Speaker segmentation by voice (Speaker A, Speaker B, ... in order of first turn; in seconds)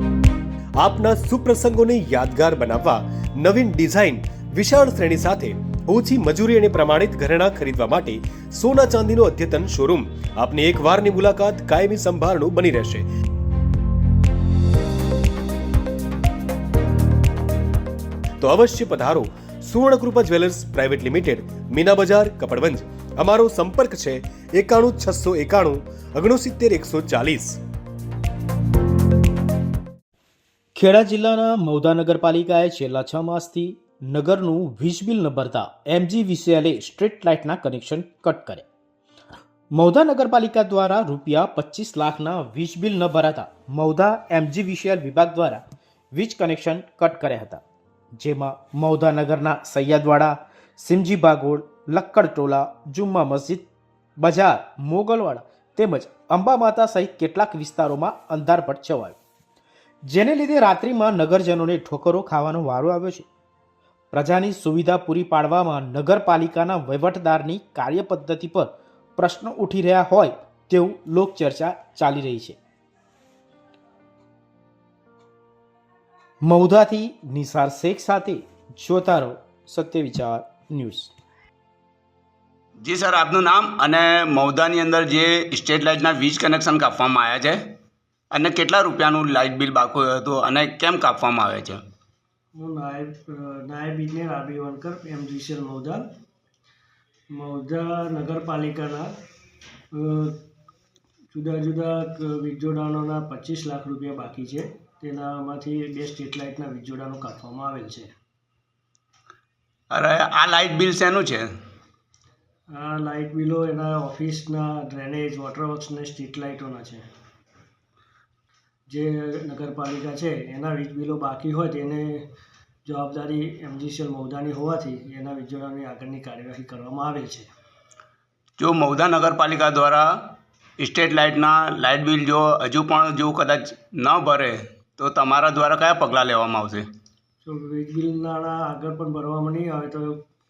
Speaker A: 0.8-13.0, 18.4-27.6
Speaker B: 30.7-38.6, 39.7-45.6, 46.1-47.6, 48.2-53.7, 54.2-59.2, 60.1-63.3, 64.1-72.6, 76.4-81.1
Speaker C: 82.8-87.6, 88.3-91.8, 109.9-111.5, 128.6-136.8
Speaker D: 92.5-96.1, 97.3-99.1, 99.9-100.4, 101.3-108.1, 112.7-117.0, 118.9-122.3, 122.8-127.5, 137.4-140.2